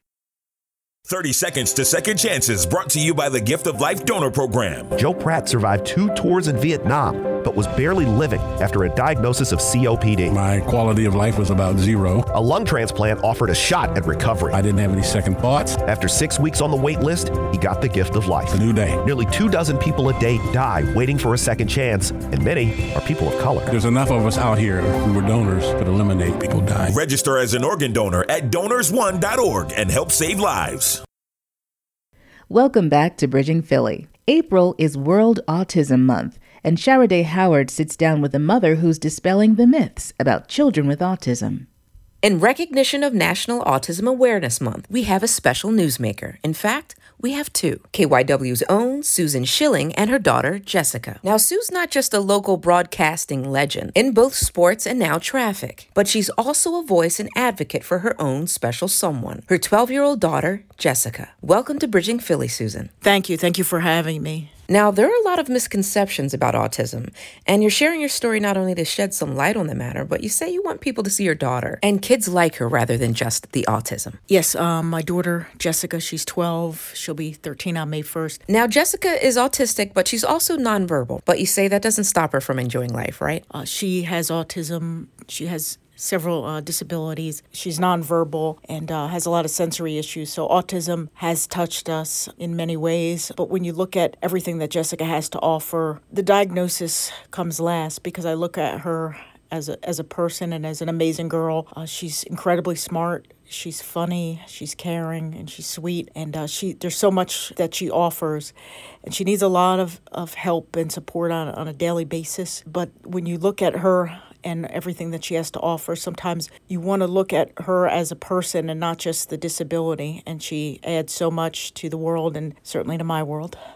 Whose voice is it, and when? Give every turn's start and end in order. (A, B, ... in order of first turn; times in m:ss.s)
0:01.1-0:04.9 A
0:05.0-0:10.4 B
0:10.3-0:12.3 C
0:12.3-0:14.6 B
0:14.5-0:15.8 C
0:15.8-0:23.7 B
0:18.5-0:19.0 C
0:23.7-0:26.9 C
0:26.9-0:31.0 A
0:32.5-0:41.7 D
0:42.2-1:02.9 E
1:03.0-1:04.5 F
1:04.7-1:14.2 E
1:14.3-1:18.4 F
1:18.5-1:23.4 E
1:23.5-1:48.5 F
1:49.0-2:03.6 F